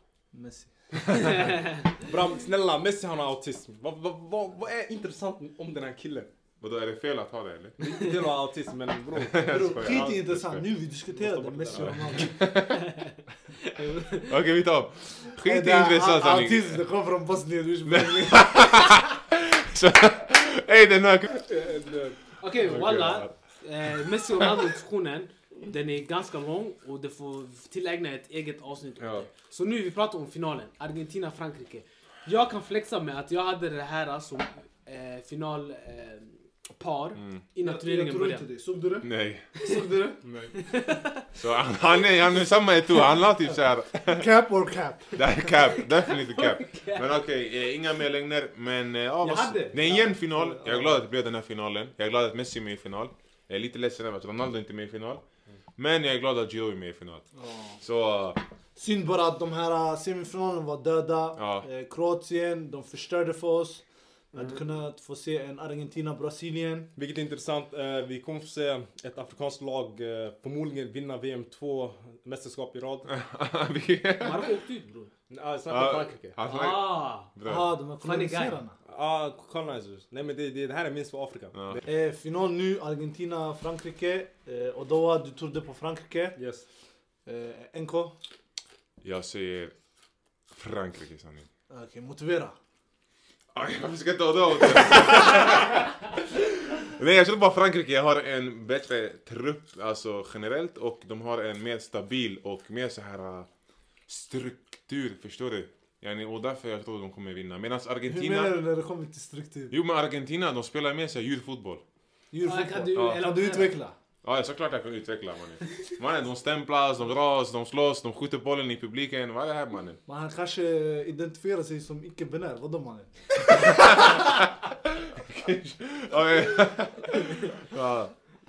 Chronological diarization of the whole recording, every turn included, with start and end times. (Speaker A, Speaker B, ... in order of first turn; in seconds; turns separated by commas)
Speaker A: 0.3-1.1, Speaker B: 1.1-1.5, Speaker C: 1.1-2.1, Speaker D: 2.0-6.3, Speaker B: 6.6-7.8, Speaker D: 7.8-10.1, Speaker B: 9.2-10.6, Speaker A: 9.4-12.5, Speaker D: 11.1-12.3, Speaker B: 11.7-12.9, Speaker C: 12.7-14.3, Speaker B: 14.2-16.8, Speaker A: 15.4-18.9, Speaker B: 17.9-21.4, Speaker D: 21.4-22.2, Speaker C: 22.4-38.5, Speaker B: 22.6-23.3, Speaker B: 29.0-29.3, Speaker B: 37.2-37.4, Speaker A: 37.6-39.1, Speaker B: 39.0-39.5, Speaker C: 39.5-41.3, Speaker D: 40.2-40.5, Speaker B: 41.3-44.3, Speaker A: 44.1-45.2, Speaker B: 45.1-55.2, Speaker C: 45.7-47.2, Speaker C: 49.2-49.9, Speaker A: 49.8-51.0, Speaker B: 55.8-57.2, Speaker A: 57.4-57.8, Speaker B: 57.8-58.4, Speaker A: 58.8-66.9, Speaker B: 61.4-61.7, Speaker D: 67.0-73.1, Speaker B: 73.1-74.5, Speaker C: 74.2-75.1, Speaker D: 75.3-76.4, Speaker B: 75.7-77.8, Speaker C: 76.4-77.3, Speaker A: 77.4-78.8, Speaker C: 78.0-78.6, Speaker D: 78.9-81.8, Speaker B: 81.5-81.8, Speaker A: 81.8-86.4, Speaker D: 86.3-86.7, Speaker A: 87.2-88.2, Speaker B: 89.0-89.7, Speaker B: 90.5-91.5, Speaker A: 91.7-92.5, Speaker B: 93.5-103.5, Speaker B: 104.1-108.6, Speaker A: 108.1-109.7, Speaker B: 109.7-111.8, Speaker A: 112.3-114.0, Speaker C: 112.4-113.8, Speaker B: 112.9-113.2, Speaker B: 114.2-120.0, Speaker A: 120.1-124.2, Speaker B: 123.5-124.5, Speaker B: 125.1-128.2